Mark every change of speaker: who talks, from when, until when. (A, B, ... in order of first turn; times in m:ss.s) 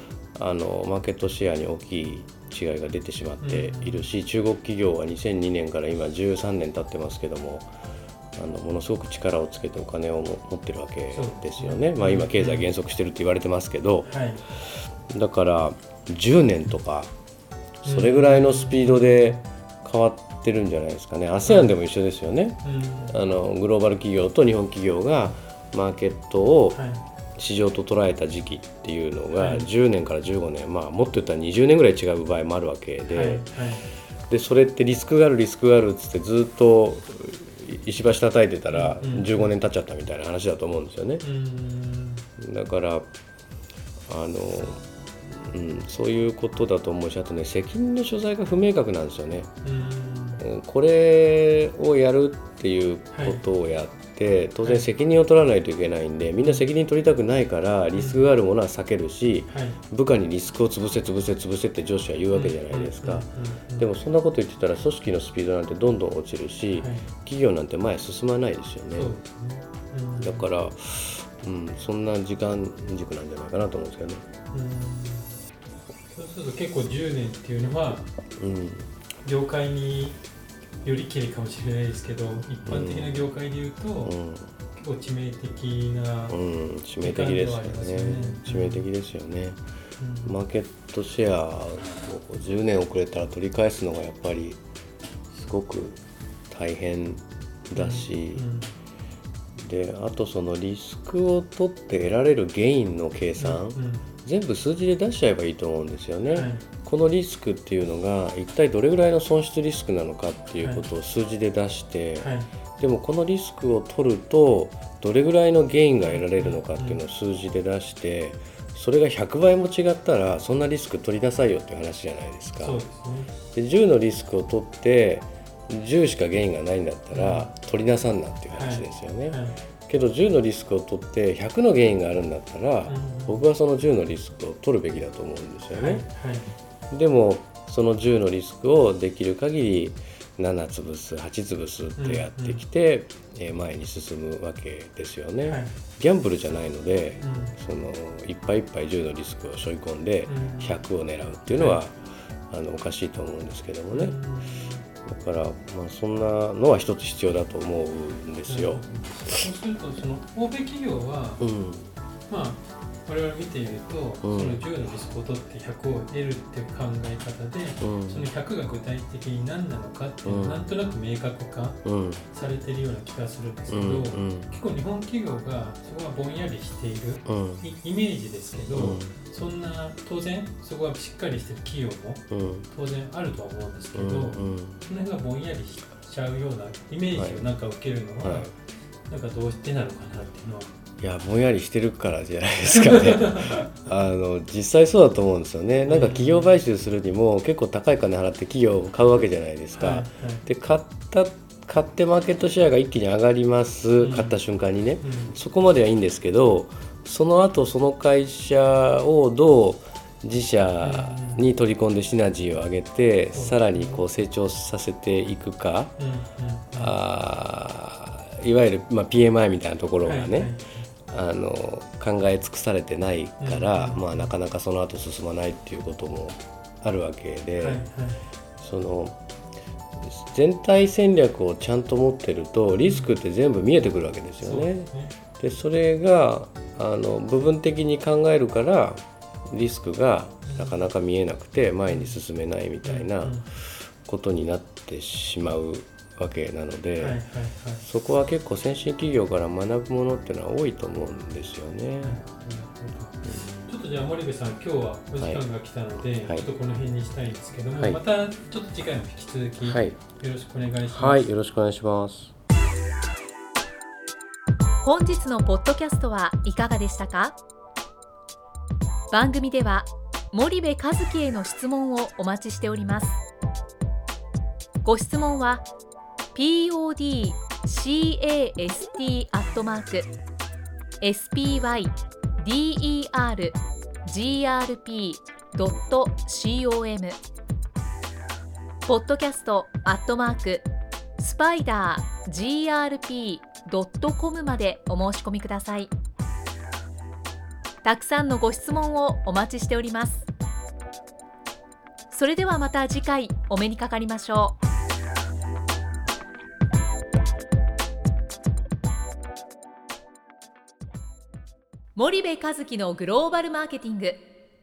0:00.4-0:07.7 A
0:03.4-0:04.1 B
0:08.4-0:17.1 A
0:11.1-0:12.7 B
0:14.1-0:14.4 B
0:17.8-0:26.8 A
0:17.8-0:19.4 B
0:21.5-0:21.8 B
0:22.6-0:23.2 B
0:26.7-0:27.0 B
0:27.4-0:33.5 A
0:29.4-0:29.7 B
0:33.1-0:33.9 B
0:34.3-0:41.2 A
0:38.7-0:39.5 B
0:41.2-0:42.2 B
0:42.4-0:43.1 A
0:44.1-0:49.5 A
0:49.6-0:50.4 B
0:50.4-1:09.1 A
0:53.1-0:53.4 B
0:57.9-0:58.3 B
0:59.5-0:59.8 B
1:02.3-1:03.9 B
1:06.8-1:07.1 B
1:08.9-1:10.4 B
1:10.2-1:14.2 A
1:14.5-1:15.4 B
1:16.1-1:18.1 B
1:18.4-1:18.9 A
1:19.2-1:20.2 B
1:20.8-1:24.1 B
1:22.6-1:23.3 A
1:24.0-1:24.5 A
1:24.8-1:26.4 B
1:26.3-1:29.6 A
1:27.0-1:28.9 B
1:30.0-1:30.4 B
1:30.2-1:34.6 A
1:35.3-1:38.4 A
1:37.8-1:38.7 B
1:39.6-2:02.8 A
1:43.4-1:44.1 B
1:46.3-1:46.6 B
1:52.2-1:52.5 B
1:56.0-1:57.0 B
2:02.6-2:03.3 B
2:03.5-2:16.0 A
2:07.1-2:07.5 B
2:08.5-2:09.6 B
2:12.9-2:13.5 B
2:15.8-2:16.5 B
2:16.9-2:32.0 A
2:22.0-2:22.6 B
2:25.4-2:25.7 B
2:27.2-2:27.6 B
2:30.3-2:30.8 B
2:31.5-2:31.8 B
2:32.5-2:34.2 A
2:33.9-2:34.8 B
2:35.0-2:39.4 A
2:38.5-2:41.4 B
2:41.4-2:41.9 A
2:42.3-3:08.5 B
2:44.2-2:44.6 A
2:47.8-2:48.3 A
2:50.2-2:50.6 A
2:51.8-2:52.2 A
2:53.7-2:54.5 A
2:57.2-2:57.6 A
2:58.7-2:59.2 A
3:02.3-3:02.7 A
3:04.0-3:04.8 A
3:07.1-3:07.5 A
3:08.2-3:08.5 A
3:09.1-3:10.7 B
3:11.0-3:36.0 A
3:12.7-3:13.7 B
3:15.9-3:16.6 B
3:19.8-3:20.4 B
3:24.0-3:24.4 B
3:25.0-3:25.4 B
3:30.8-3:31.4 B
3:33.3-3:34.0 B
3:36.0-3:37.0 B
3:36.8-3:40.5 A
3:40.0-3:40.9 B
3:41.1-3:47.8 A
3:43.4-3:44.3 B
3:47.6-3:48.2 B
3:48.6-3:49.2 A
3:50.0-4:07.2 A
3:52.8-3:53.1 B
3:54.4-3:55.1 B
4:00.5-4:00.9 B
4:01.9-4:02.2 B
4:02.8-4:03.4 B
4:07.0-4:07.8 B
4:07.8-4:12.2 A
4:12.0-4:21.3 B
4:13.2-4:13.6 A
4:17.7-4:18.0 A
4:19.6-4:20.0 A
4:20.9-4:22.3 A
4:24.8-4:27.4 C
4:29.1-4:33.2 C
4:34.8-4:35.7 C
4:36.3-4:40.1 C
4:41.0-4:47.2 C
4:48.9-4:50.7 C
4:51.2-4:55.9 C
4:57.8-5:00.3 C
5:02.1-5:04.6 C
5:12.0-5:14.2 C